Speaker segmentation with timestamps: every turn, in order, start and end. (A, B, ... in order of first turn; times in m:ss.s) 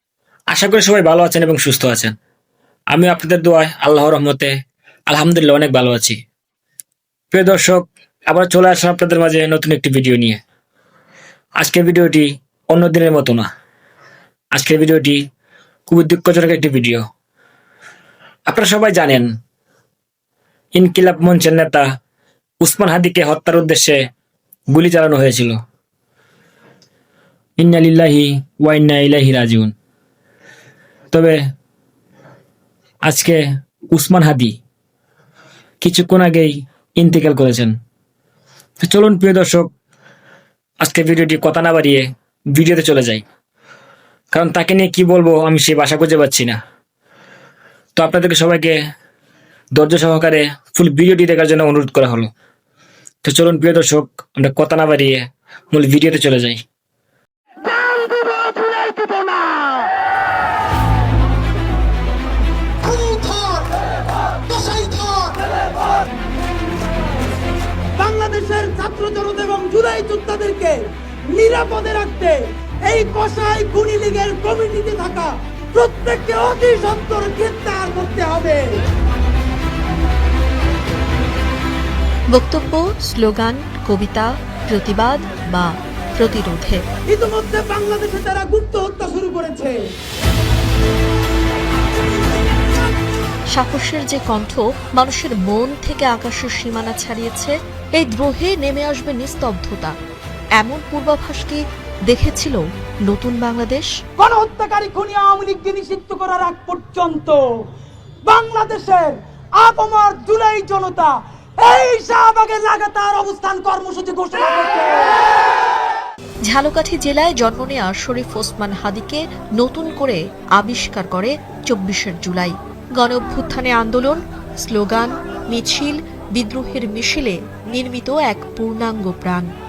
0:00.5-0:02.1 A
0:02.9-0:04.5 A
0:05.1-0:06.2 A
0:07.3-0:10.4 A
0:11.6-0:13.5 A
0:14.5-0:15.2 A
0:15.9-0:17.0 A
0:18.5-0:19.3 A
0:20.7-0:21.8 A
0:22.6-0:24.0 A
0:24.7-0:25.6 A
0:27.6-0:29.7 A
0:31.1-0:31.4 A
0:33.0-0:34.6 A
0:35.8-0:37.7 A
0:38.8-0:39.7 A
0:40.8-0:43.2 A
0:44.3-0:46.6 A
0:48.0-0:48.8 A
0:49.7-0:52.3 A
0:53.2-0:56.6 A
1:02.8-1:03.7 B
1:04.5-1:05.5 B
1:08.0-1:18.8 B
1:22.3-1:26.8 C
1:27.1-1:29.8 B
1:33.5-1:39.9 C
1:40.6-1:43.9 C
1:44.2-1:47.4 B
1:48.2-1:55.2 B
1:56.5-2:09.5 C